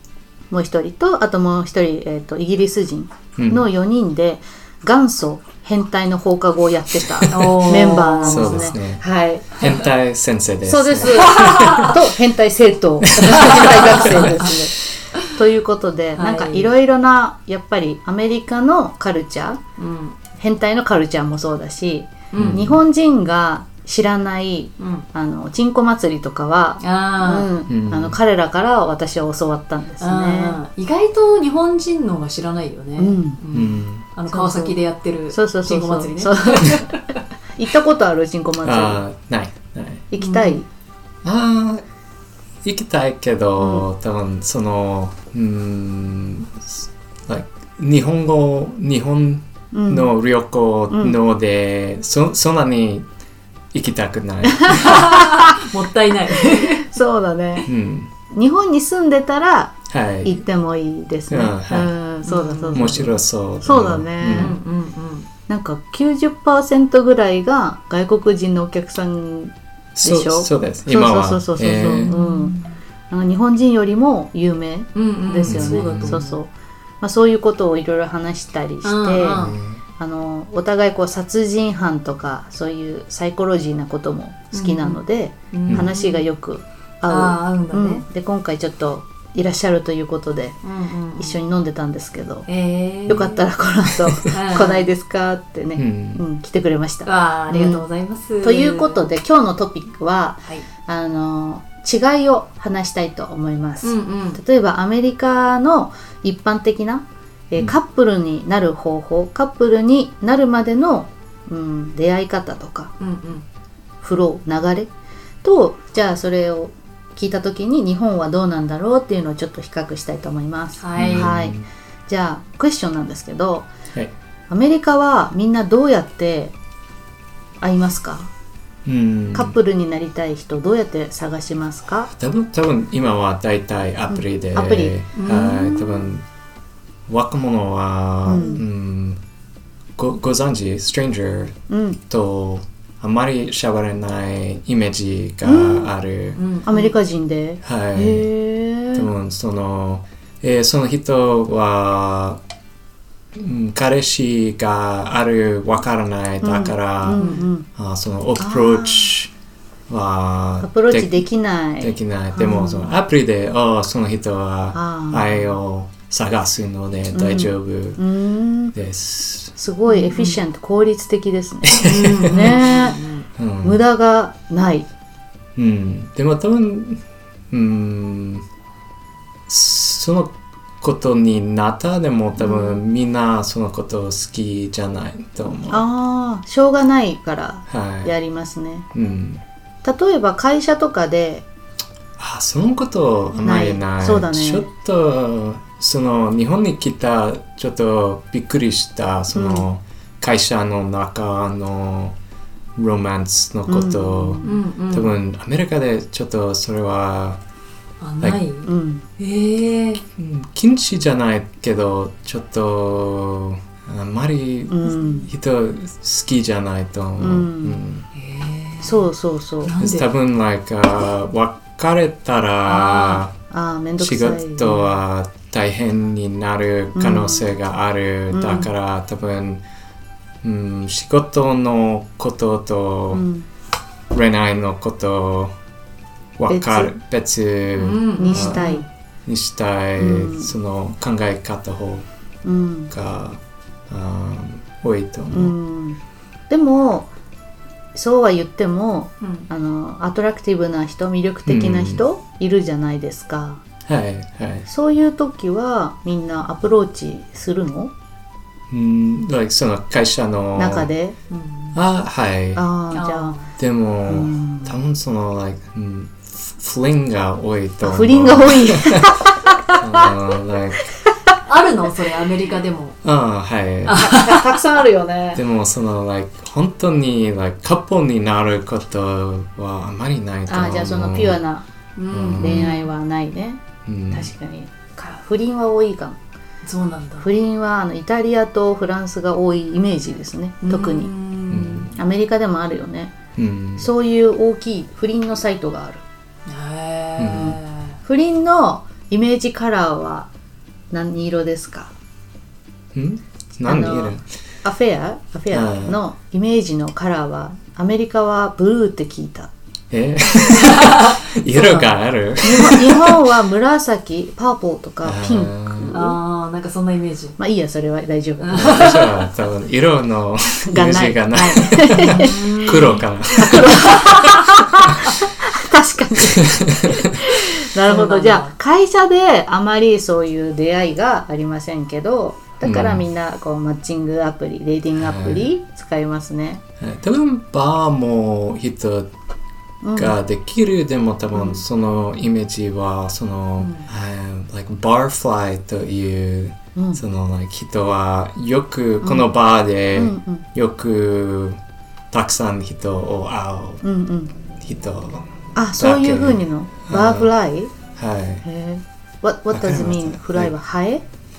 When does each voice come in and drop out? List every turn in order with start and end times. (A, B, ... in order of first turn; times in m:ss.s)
0:00.5-0:09.6 A
0:03.4-0:03.7 B
0:07.2-0:09.0 B
0:07.3-0:08.7 C
0:09.6-0:12.0 B
0:10.6-0:19.6 A
0:11.1-0:11.9 C
0:13.1-0:14.4 B
0:13.2-0:14.6 C
0:16.2-0:16.7 C
0:19.8-0:20.2 C
0:20.4-0:30.6 A
0:22.3-0:22.6 C
0:22.4-0:22.8 B
0:24.8-0:25.0 C
0:26.8-0:27.5 C
0:27.7-0:28.2 B
0:30.0-0:37.2 C
0:33.0-0:33.4 A
0:33.5-0:34.0 B
0:34.3-0:34.8 A
0:35.3-0:37.0 A
0:37.6-0:39.0 A
0:38.6-0:40.0 B
0:40.1-0:40.7 A
0:40.2-0:40.6 C
0:41.2-0:41.8 B
0:42.6-0:53.1 B
0:43.6-0:43.8 A
0:49.7-0:50.1 A
0:50.9-0:51.2 A
0:53.7-0:55.1 B
0:54.8-0:56.9 C
0:54.8-0:55.5 A
0:56.5-0:57.7 A
0:57.6-0:58.1 B
0:58.3-1:04.6 A
0:59.9-1:00.4 B
1:01.3-1:01.9 B
1:02.2-1:03.0 C
1:02.7-1:04.5 B
1:04.3-1:05.3 C
1:05.5-1:16.5 A
1:10.0-1:12.1 B
1:12.0-1:12.8 C
1:14.9-1:16.4 C
1:15.4-1:16.2 B
1:17.0-1:19.4 A
1:18.8-1:19.6 C
1:19.3-1:19.8 B
1:20.0-1:30.6 A
1:24.5-1:26.2 C
1:27.1-1:28.0 C
1:30.6-1:31.4 C
1:31.2-1:32.5 A
1:32.5-1:33.4 C
1:33.1-1:37.8 A
1:33.1-1:33.3 B
1:34.3-1:34.9 C
1:35.8-1:36.2 B
1:37.0-1:39.0 C
1:38.4-1:52.9 A
1:43.8-1:44.4 C
1:53.0-1:53.4 C
1:54.0-1:54.9 A
1:55.4-2:03.7 A
2:00.8-2:01.3 C
2:01.0-2:01.7 B
2:04.5-2:06.5 A
2:07.6-2:08.3 A
2:08.8-2:09.5 B
2:09.3-2:12.1 A
2:12.1-2:16.2 B
2:14.1-2:14.9 A
2:15.2-2:16.1 C
2:17.1-2:19.2 B
2:18.2-2:18.6 A
2:20.0-2:21.6 B
2:21.7-2:22.0 A
2:22.1-2:26.4 B
2:25.4-2:25.9 A
2:26.4-2:27.0 C
2:26.7-2:29.1 A
2:27.6-2:28.3 B
2:28.9-2:32.4 B
2:33.3-2:39.3 B
2:36.4-2:37.7 A
2:37.2-2:37.5 C
2:38.4-2:39.1 A
2:39.9-2:41.2 B
2:40.6-2:42.0 A
2:41.8-2:48.0 B
2:42.3-2:42.9 C
2:44.7-2:45.4 A
2:47.1-2:48.7 A
2:48.7-2:49.5 B
2:49.6-2:53.1 A
2:49.9-2:50.4 C
2:51.6-2:52.5 B
2:51.8-2:53.2 C
2:53.4-2:53.8 B
2:53.6-2:54.9 A
2:55.6-2:58.4 B
2:59.5-3:05.8 B
3:05.7-3:08.9 A
3:07.7-3:08.1 B
3:08.9-3:09.4 B
3:09.8-3:11.5 A
3:12.2-3:22.2 B
3:13.3-3:14.7 A
3:19.3-3:19.6 A
3:22.8-3:27.4 B
3:23.7-3:24.6 A
3:24.4-3:25.1 C
3:28.0-3:30.0 C
3:28.6-3:29.0 A
3:30.2-3:38.0 B
3:34.7-3:35.3 A
3:37.2-3:37.8 A
3:38.1-3:39.1 C
3:38.8-3:39.7 A
3:39.6-3:40.1 C
3:39.8-3:43.3 B
3:42.7-3:43.2 C
3:43.5-3:44.9 A
3:44.0-3:49.6 B
3:47.0-3:47.5 A
3:48.3-3:48.7 A
3:50.4-3:53.2 B
3:53.1-3:53.4 A
3:54.1-3:55.5 B
3:56.4-3:58.6 B
3:56.5-3:56.9 A
3:57.8-3:58.8 C
3:58.2-3:58.9 A
3:59.2-4:02.0 B
4:00.0-4:00.5 A
4:02.4-4:02.9 A
4:02.9-4:05.5 B
4:05.3-4:06.0 A
4:06.5-4:07.1 A
4:07.9-4:13.6 A
4:09.2-4:09.5 C
4:11.4-4:12.0 B
4:13.8-4:14.7 B
4:14.7-4:17.9 A
4:18.7-4:20.9 B
4:20.6-4:21.2 A
4:21.3-4:21.8 C
4:21.7-4:22.7 B
4:22.6-4:23.4 A
4:22.9-4:23.4 C
4:23.6-4:30.8 B
4:24.1-4:24.8 A
4:27.8-4:30.1 A
4:31.4-4:33.0 C
4:33.0-4:34.1 B
4:33.8-4:34.6 C
4:33.9-4:35.4 A
4:35.3-4:41.4 B
4:40.5-4:41.6 A
4:42.0-4:42.9 C
4:42.1-4:42.7 B
4:42.4-4:46.2 A
4:43.8-4:44.3 B
4:46.6-4:47.3 C
4:47.2-4:51.1 A
4:50.6-4:51.9 C
4:51.5-4:51.9 B
4:51.9-4:53.1 A
4:53.4-4:53.9 B
4:53.8-4:56.0 A
4:56.4-4:58.0 C
4:57.2-4:57.6 B
4:57.3-5:00.3 A
5:00.9-5:01.9 A
5:02.9-5:04.2 B
5:03.6-5:09.5 A
5:05.5-5:06.0 B
5:09.9-5:13.2 B
5:11.5-5:16.2 A
5:15.0-5:15.9 B
5:15.9-5:17.4 C
5:17.4-5:19.0 A
5:18.4-5:19.3 C
5:18.5-5:24.2 B
5:20.6-5:36.6 A
5:22.0-5:23.0 C
5:23.7-5:24.4 C
5:26.3-5:27.2 B
5:27.8-5:28.5 C
5:32.6-5:33.0 B
5:35.0-5:35.5 B
5:36.8-5:39.1 B
5:39.8-5:40.1 A
5:39.9-5:51.6 B
5:43.6-5:43.9 C
5:46.7-5:47.0 A
5:49.0-5:49.3 A
5:49.9-5:50.4 A
5:52.1-5:53.8 B
5:53.8-5:54.3 A
5:54.6-5:55.3 B
5:55.6-5:57.7 A
5:55.8-5:57.3 B
5:58.0-5:58.4 B
5:58.4-6:01.0 A
5:59.5-6:00.5 B